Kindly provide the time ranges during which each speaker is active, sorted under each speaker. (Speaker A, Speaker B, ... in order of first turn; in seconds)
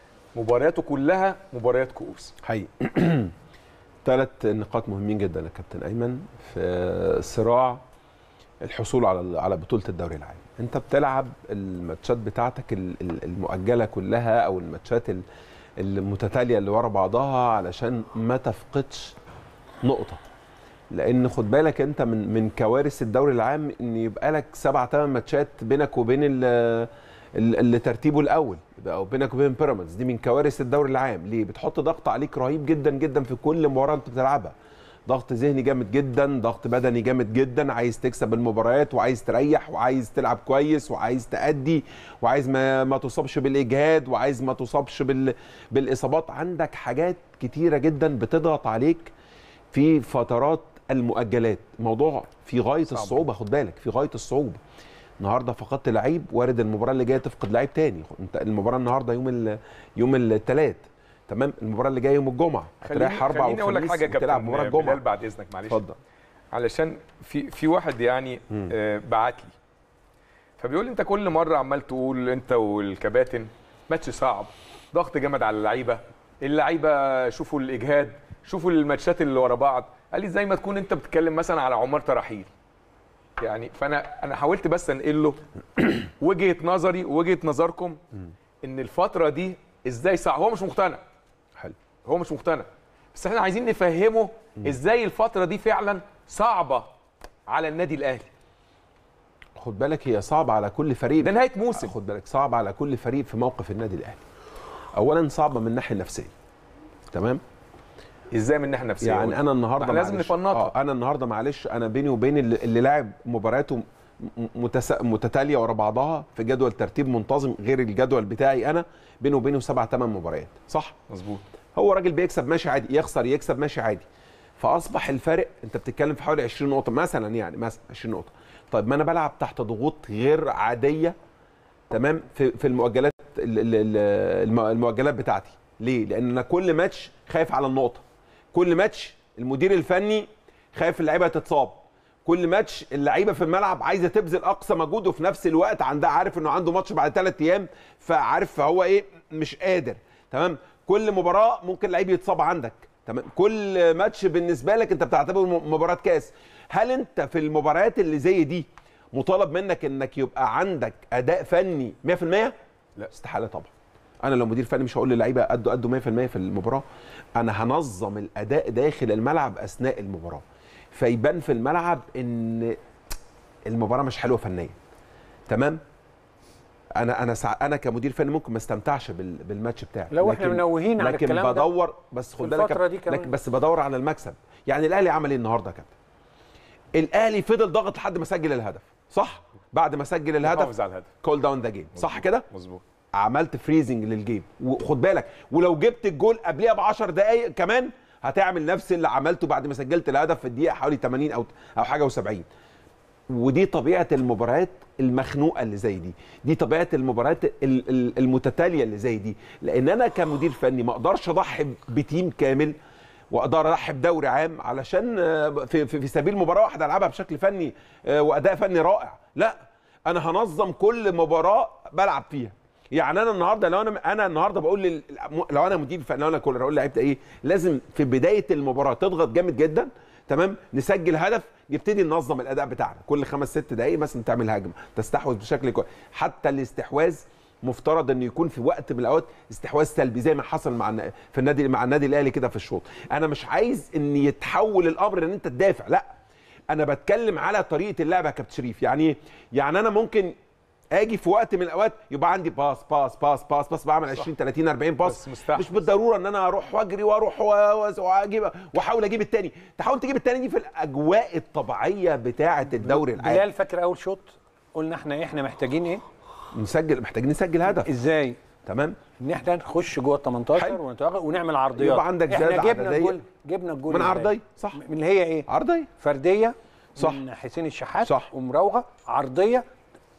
Speaker A: 0.3-2.3, 52.9-53.2, 62.8-65.8, 66.5-69.5, 70.6-82.5, 83.4-88.0, 88.6-91.0, 92.0-96.9, 97.5-98.3, 101.2-101.9, 108.3-110.7, 121.1-121.4, 190.4-191.1, 192.0-192.8, 255.0-255.9
Speaker B: 2.4-3.3, 4.0-7.8, 8.6-15.2, 15.8-19.1, 19.8-20.2, 20.9-34.5, 35.1-49.1, 49.7-54.6, 55.2-65.0, 65.7-66.0, 99.6-104.2, 104.9-106.3, 107.1-107.4, 109.0-121.0, 121.8-124.1, 124.6-131.2, 131.9-162.5, 163.1-166.8, 167.4-172.8, 173.7-174.8, 175.5-175.8, 177.0-185.9, 186.9-192.5, 193.2-202.5, 203.3-212.8, 213.3-246.1, 246.7-250.3, 250.9-263.5, 266.5-267.9, 268.6-269.0, 270.6-270.8, 271.8-273.2, 273.9-274.8, 275.5-275.9, 277.0-277.2, 278.0-278.3
Speaker C: 180.1-181.7, 182.4-183.3, 262.8-266.0, 267.7-268.4, 269.2-275.5, 276.0-279.7